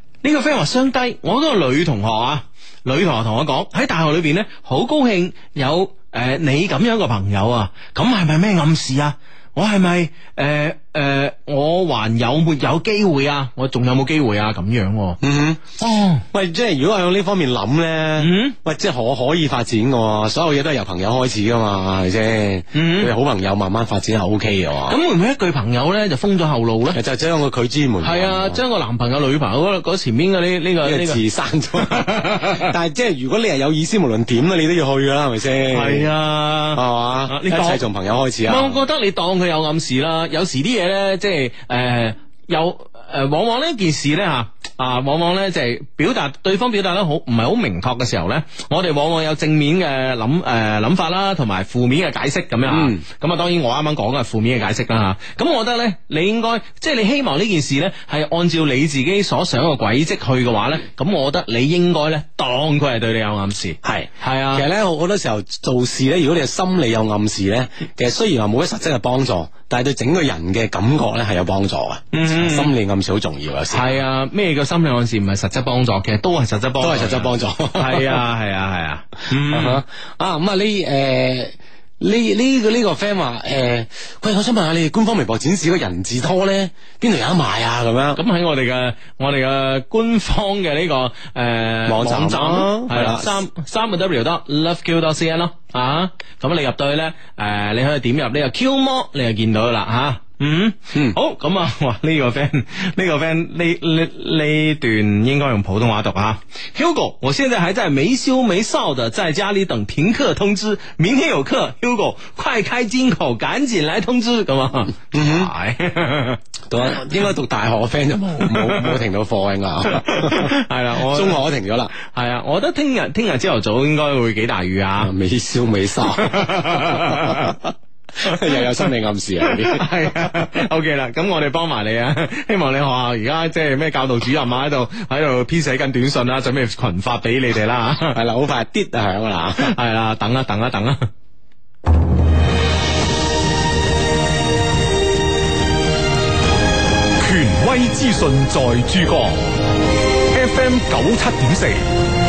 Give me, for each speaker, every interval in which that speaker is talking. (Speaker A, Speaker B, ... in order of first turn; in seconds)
Speaker A: 0.2-15.2, 15.8-16.2, 18.2-18.5, 22.7-23.1, 24.9-27.0, 28.0-31.2, 31.8-32.6, 35.7-37.8, 38.5-64.6, 72.1-72.7, 73.7-79.8, 88.1-116.4, 118.4-118.9, 119.9-121.4, 122.0-125.1, 126.2-127.6, 128.2-128.8, 129.4-138.2, 139.6-141.1
Speaker B: 15.2-15.6, 16.3-25.0, 26.9-28.6, 30.8-36.1, 36.7-38.8, 52.7-53.0, 63.8-74.0, 76.8-78.2, 79.5-88.2, 91.8-93.3, 115.1-115.5, 116.7-121.9, 125.0-127.5, 128.2-130.4, 138.1-139.7
Speaker C: 147.2-149.4, 150.3-151.9